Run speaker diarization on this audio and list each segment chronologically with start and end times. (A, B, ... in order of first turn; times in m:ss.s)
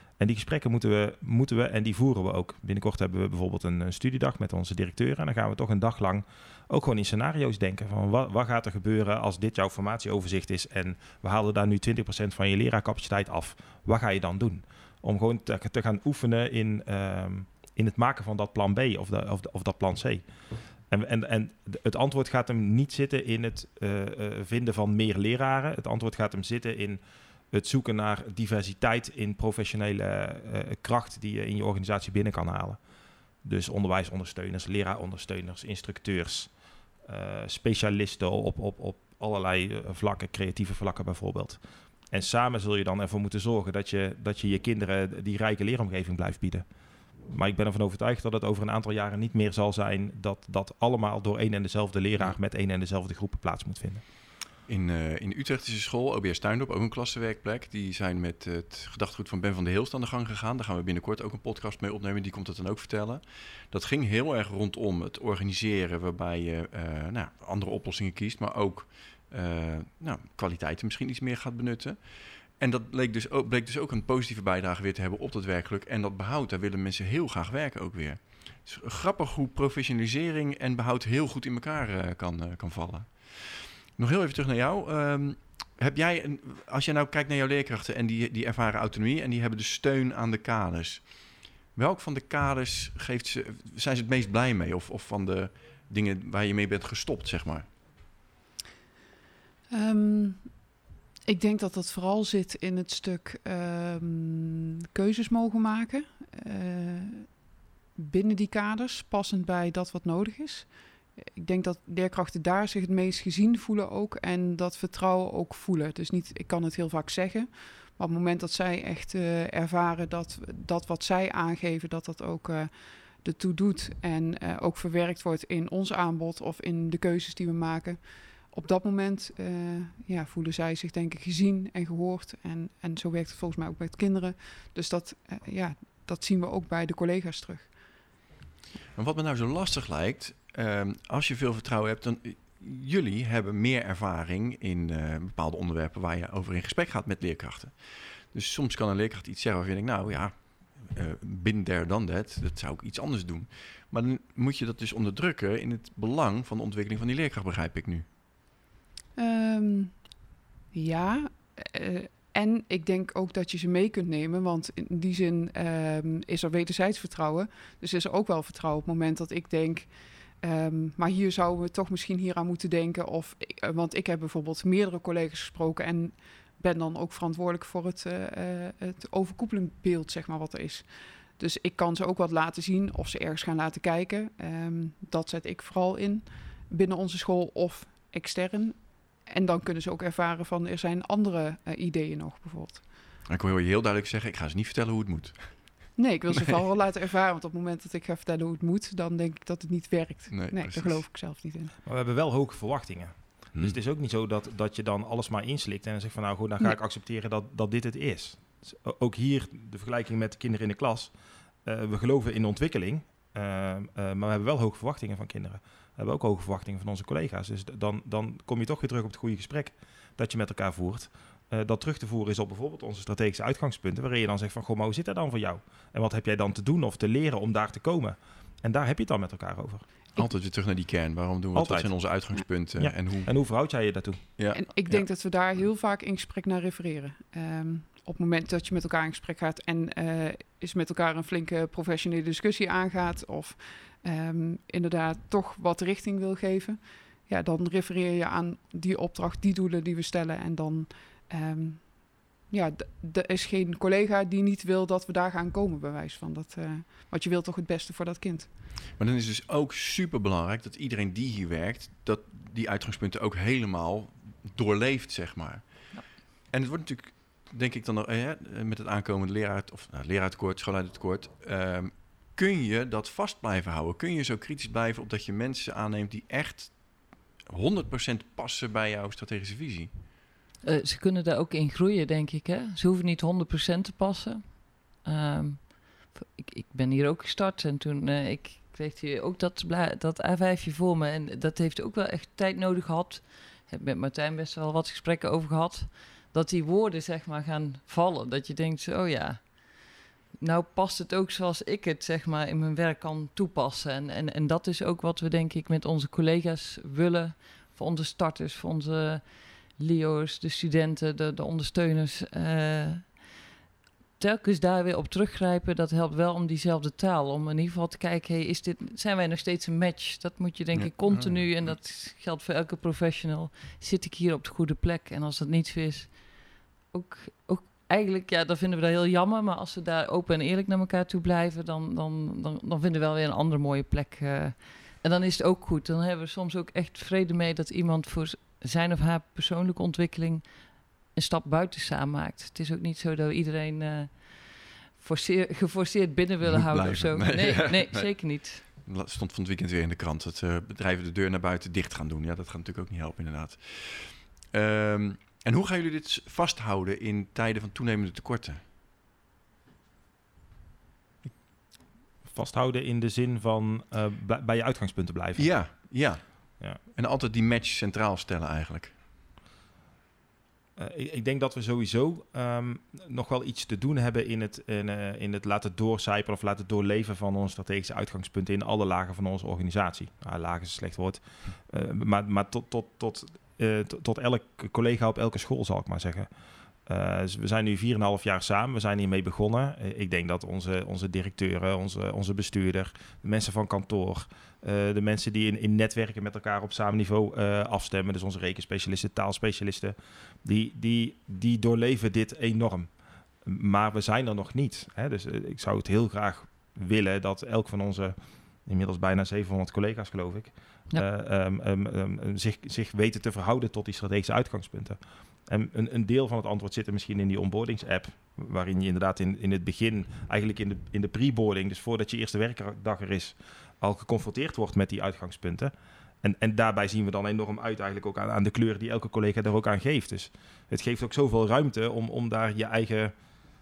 0:00.2-0:20.3 A
0:20.9-0:27.0 A
0:27.5-0:32.8 A
0:33.4-0:36.5 A
0:37.0-0:46.6 A
0:47.3-0:54.1 A
0:54.7-1:37.7 B
1:39.7-1:40.7 C
1:41.3-2:18.0 C
2:19.0-2:38.1 B
2:39.2-3:13.0 C
3:13.3-3:16.4 B
3:16.0-3:21.7 C
3:20.3-3:21.0 B
3:21.8-3:31.1 A
3:31.6-3:49.9 A
3:50.2-3:53.3 B
3:51.5-3:54.3 A
3:54.4-3:55.1 B
3:54.5-4:18.5 C
4:19.0-4:40.0 B
4:40.6-5:13.3 D
5:14.2-5:48.6 D
5:20.7-5:21.8 B
5:46.4-5:58.6 B
6:02.3-6:05.9 A
6:05.4-6:09.0 B
6:10.8-6:26.3 A
6:26.8-6:42.9 A
6:43.4-7:13.1 A